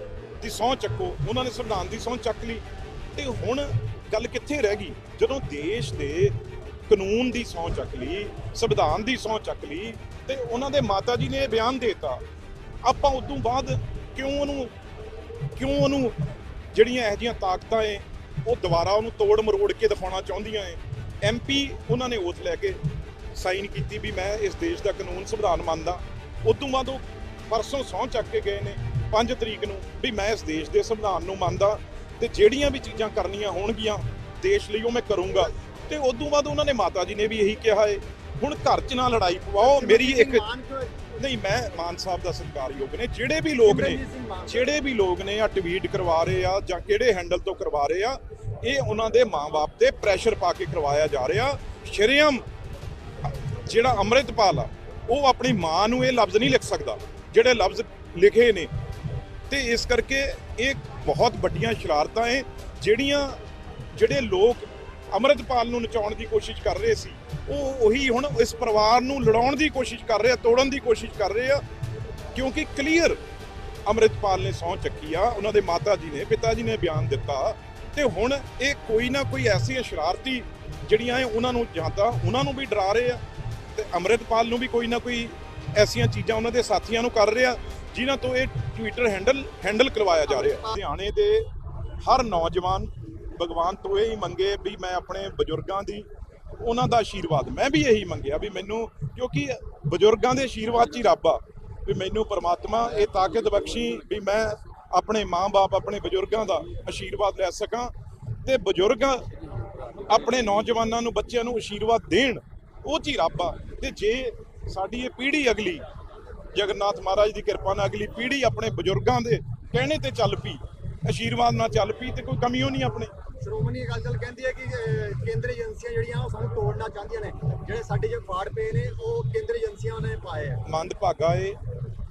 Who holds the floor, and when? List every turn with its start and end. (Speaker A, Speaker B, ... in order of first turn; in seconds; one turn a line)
Speaker A: 0.4-2.6
Speaker A: 3.1-12.2
Speaker A: 12.8-14.7
Speaker A: 15.5-16.1
Speaker A: 16.7-22.8
Speaker A: 23.3-40.5
Speaker B: 39.6-41.0
Speaker A: 41.1-52.4
Speaker B: 43.6-44.7
Speaker A: 53.2-58.7
Speaker A: 59.5-63.4
Speaker A: 63.9-71.6
Speaker A: 72.3-73.2
Speaker A: 73.8-83.2
Speaker A: 83.7-91.5
Speaker B: 90.3-90.8
Speaker A: 92.0-96.1
Speaker A: 96.6-107.9
Speaker A: 108.4-109.2
Speaker A: 110.0-115.8
Speaker A: 116.5-123.1
Speaker B: 123.4-130.6
Speaker A: 130.6-131.6